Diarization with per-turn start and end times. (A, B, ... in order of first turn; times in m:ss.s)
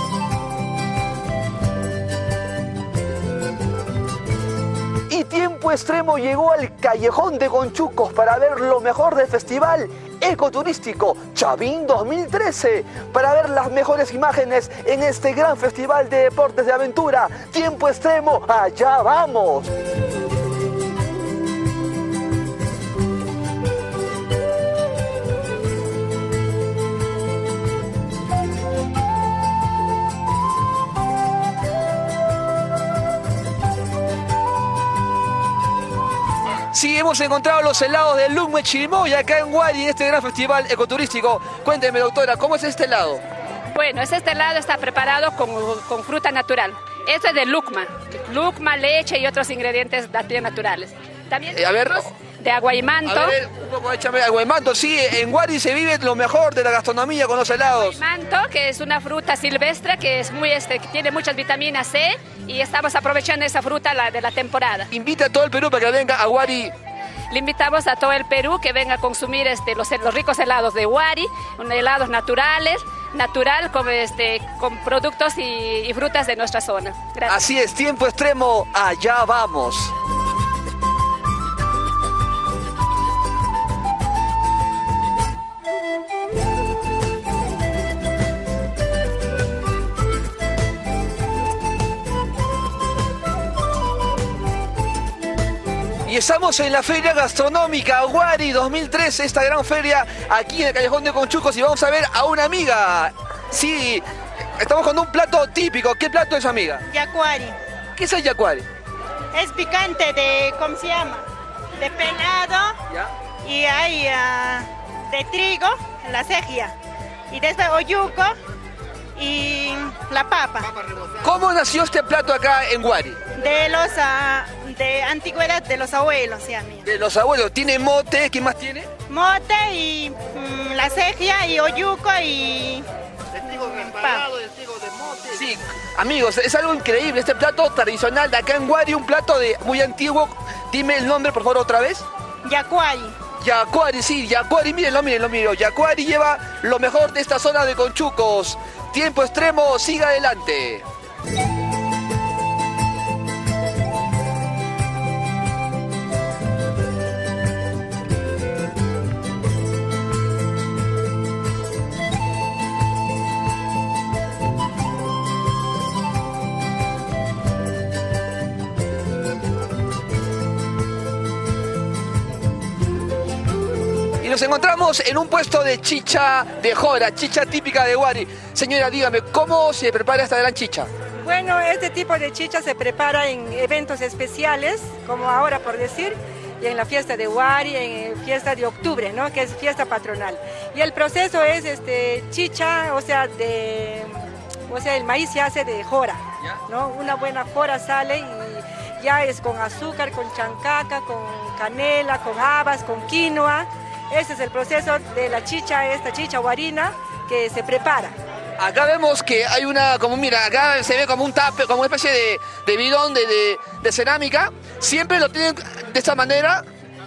0:05.1-0:19.7 A
0:36.7-0:43.2 A
0:43.7-0:53.4 B
0:51.5-0:52.1 A
0:53.0-0:58.0 A
0:57.7-1:04.9 B
1:04.9-1:06.7 A
1:07.3-1:17.4 B
1:17.3-1:19.9 A
1:36.1-1:44.1 A
1:44.6-1:46.8 A
1:46.9-1:47.6 C
1:48.0-1:48.6 A
1:49.3-1:51.2 C
1:51.8-1:52.8 C
1:53.4-1:56.8 C
1:57.3-1:58.4 C
1:59.2-2:00.8 C
2:01.2-2:03.2 A
2:03.4-2:06.8 C
2:06.8-2:08.9 A
2:09.1-2:12.9 C
2:13.4-2:14.3 C
2:15.2-2:22.0 A
2:22.4-2:23.2 C
2:23.4-2:30.8 A
2:54.2-3:00.9 A
3:01.2-3:28.2 D
3:28.6-3:36.6 A